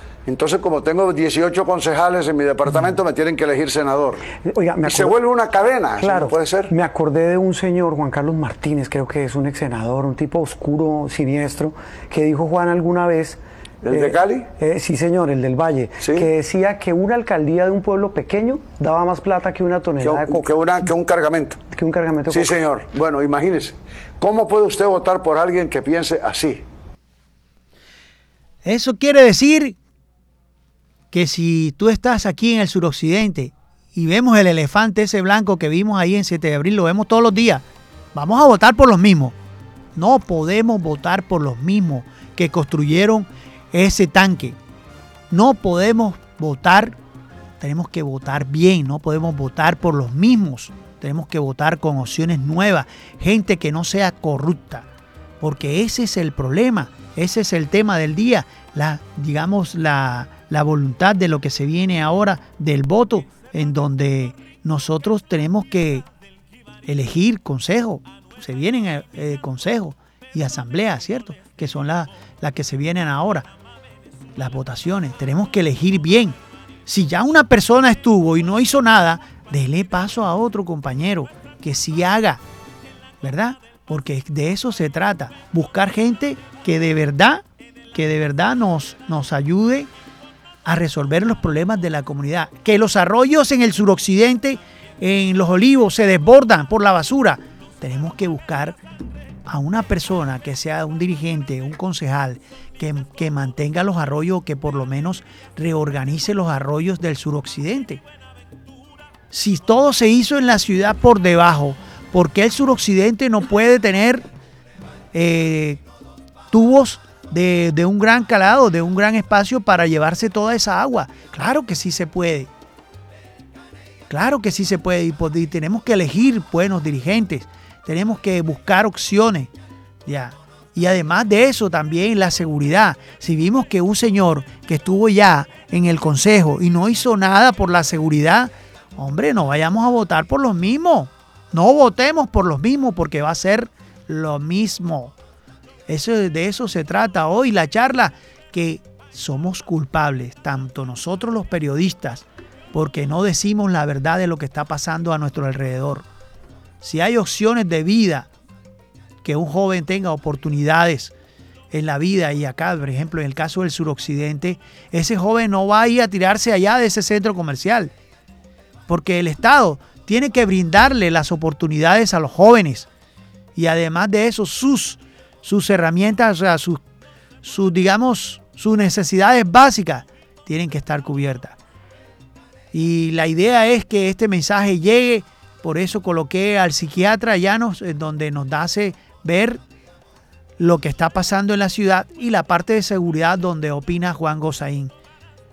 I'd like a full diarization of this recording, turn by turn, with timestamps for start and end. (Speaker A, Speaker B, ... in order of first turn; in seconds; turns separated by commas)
Speaker A: 0.2-4.2, Speaker B: 4.4-5.2, Speaker A: 4.8-6.7, Speaker B: 6.0-20.4, Speaker A: 13.8-14.5, Speaker A: 16.0-16.2, Speaker A: 20.0-21.6, Speaker B: 21.7-22.6, Speaker A: 22.3-26.6, Speaker C: 28.6-29.8, Speaker C: 31.1-39.4, Speaker C: 39.9-44.6, Speaker C: 45.3-47.0, Speaker C: 47.6-54.9, Speaker C: 55.4-66.0, Speaker C: 66.8-73.5, Speaker C: 74.3-82.4, Speaker C: 83.2-89.9, Speaker C: 90.6-98.8, Speaker C: 99.5-108.0, Speaker C: 109.3-114.3, Speaker C: 115.1-115.8, Speaker C: 116.5-122.5, Speaker C: 124.1-129.5, Speaker C: 130.1-145.1, Speaker C: 145.9-156.1, Speaker C: 156.8-158.3, Speaker C: 159.2-161.1, Speaker C: 161.7-167.9, Speaker C: 168.9-172.9, Speaker C: 173.6-176.8, Speaker C: 177.4-181.6, Speaker C: 182.7-189.6, Speaker C: 190.6-194.9